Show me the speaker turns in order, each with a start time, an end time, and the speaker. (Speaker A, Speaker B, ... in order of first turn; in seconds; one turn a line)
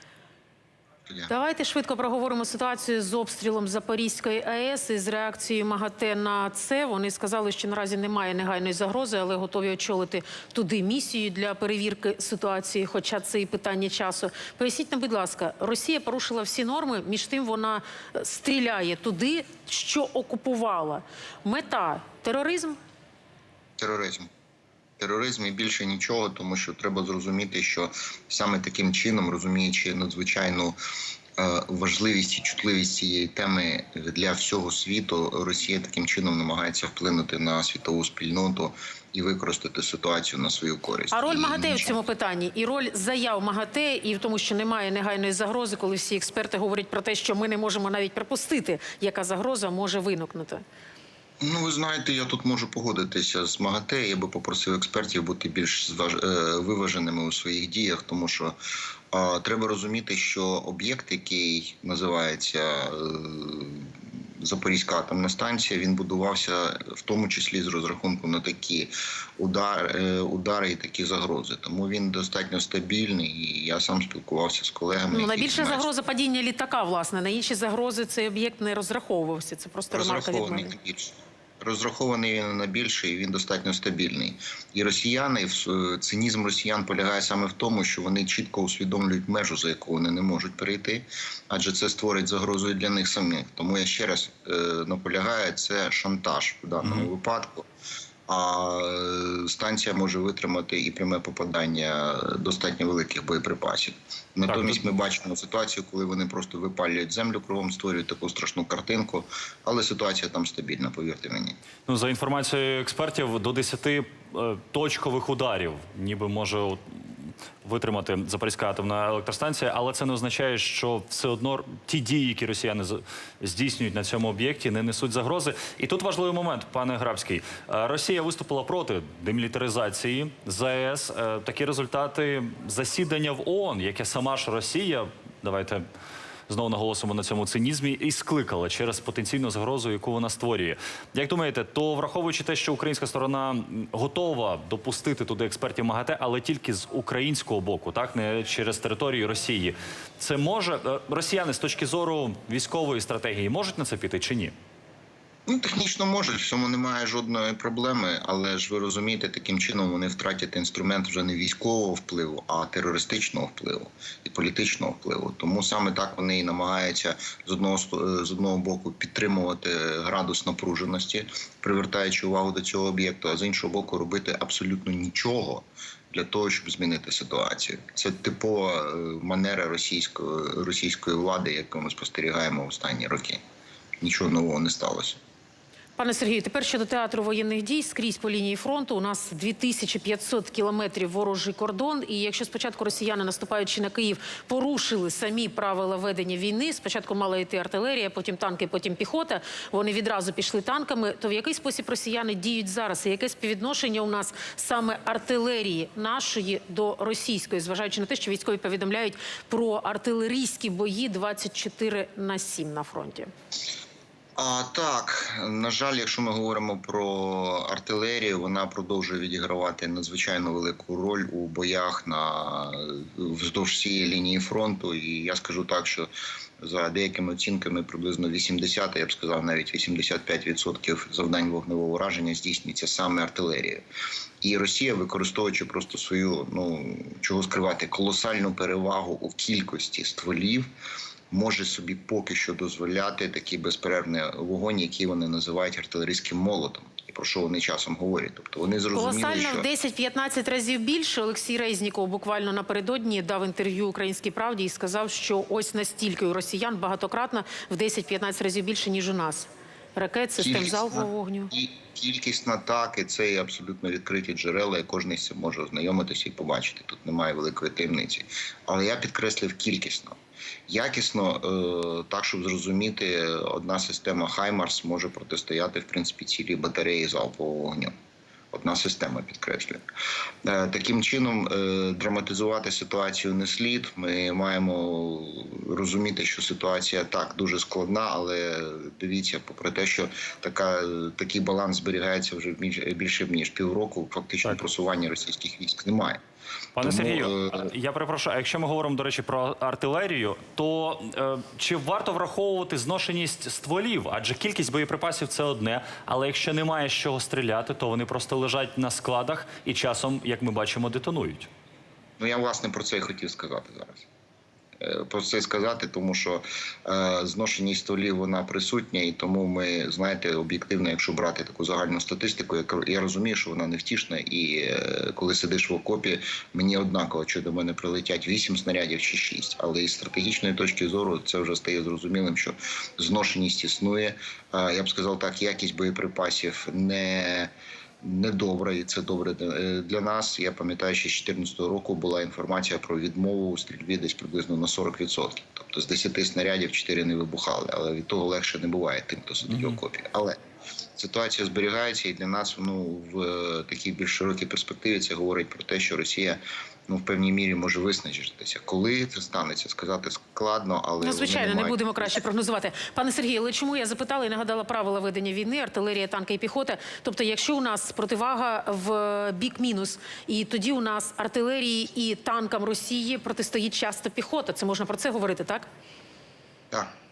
Speaker A: 1.3-22.8
Speaker B: 23.8-24.3
Speaker B: 25.0-30.8
Speaker B: 31.4-42.0
Speaker A: 41.1-50.6
Speaker B: 51.4-58.5
Speaker B: 59.1-63.9
Speaker B: 64.4-75.9
Speaker A: 75.1-80.8
Speaker B: 79.9-97.7
Speaker C: 96.8-97.1
Speaker B: 98.3-111.6
Speaker C: 104.5-104.8
Speaker C: 111.9-135.8
Speaker C: 136.5-154.5
Speaker B: 155.5-183.4
Speaker B: 184.0-185.2
Speaker A: 186.0-213.3
Speaker B: 214.4-233.8
Speaker B: 234.4-240.7
Speaker B: 241.3-249.7
Speaker A: 248.9-261.5
Speaker B: 260.4-270.1
Speaker B: 270.7-277.9
Speaker B: 278.5-279.8
Speaker B: 280.4-296.2
Speaker C: 296.8-311.5
Speaker B: 296.8-297.6
Speaker B: 312.2-314.1
Speaker B: 314.8-337.5
Speaker B: 338.0-350.4
Speaker B: 350.9-362.1
Speaker A: 361.0-375.7